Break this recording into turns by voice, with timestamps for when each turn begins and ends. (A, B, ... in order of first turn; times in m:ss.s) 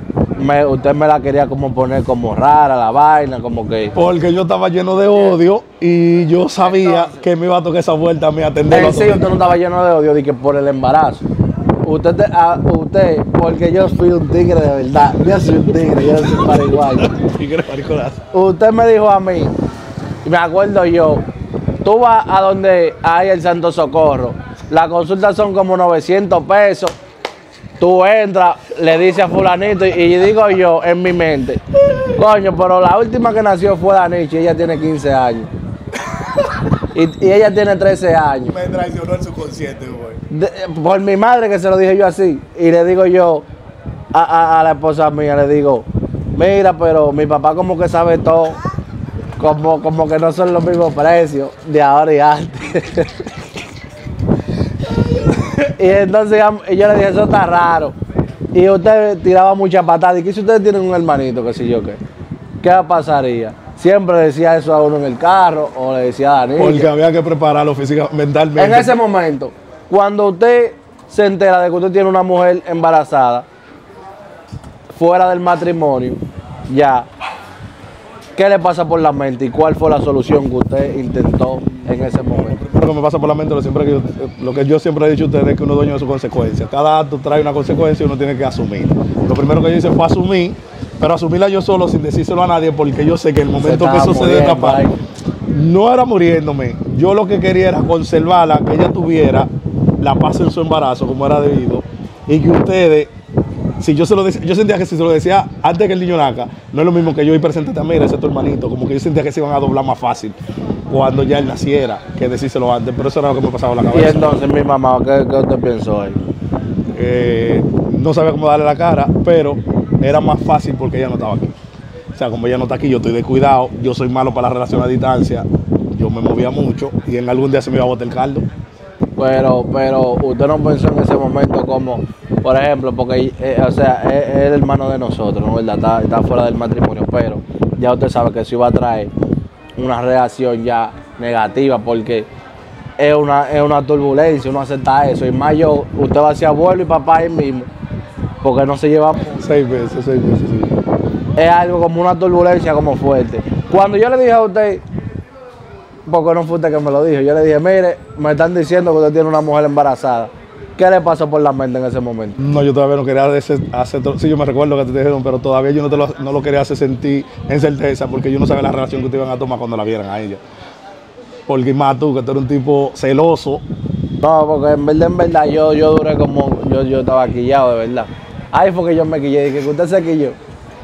0:00.4-0:04.0 A
0:04.0-0:09.2 B
0:08.7-0:11.2 A
0:11.8-0:17.1 A
0:15.2-0:18.2 B
0:18.3-0:19.6 A
0:20.2-0:21.2 A
0:21.8-0:27.0 A
0:27.8-0:35.5 A
0:36.9-0:38.6 A
0:38.5-0:40.2 B
0:40.3-0:43.5 A
0:44.1-0:48.6 A
0:49.4-0:53.4 A
0:55.5-0:58.0 A
0:58.5-1:02.0 A
1:02.6-1:06.9 A
1:06.6-1:09.0 B
1:08.6-1:13.5 A
1:14.9-1:17.1 A
1:18.4-1:22.6 A
1:22.3-1:34.8 B
1:33.6-1:35.0 A
1:35.5-1:39.5 B
1:40.0-1:43.1 B
1:43.8-1:50.4 B
1:50.9-1:54.4 B
1:53.9-1:56.2 A
1:56.9-2:01.5 B
2:02.2-2:08.5 B
2:09.2-2:19.1 A
2:19.8-2:22.3 A
2:23.0-2:27.7 A
2:28.4-2:29.4 A
2:29.4-2:30.8 B
2:31.4-2:34.8 A
2:36.1-2:42.4 A
2:42.4-2:50.4 B
2:51.5-2:53.6 B
2:54.2-3:00.4 A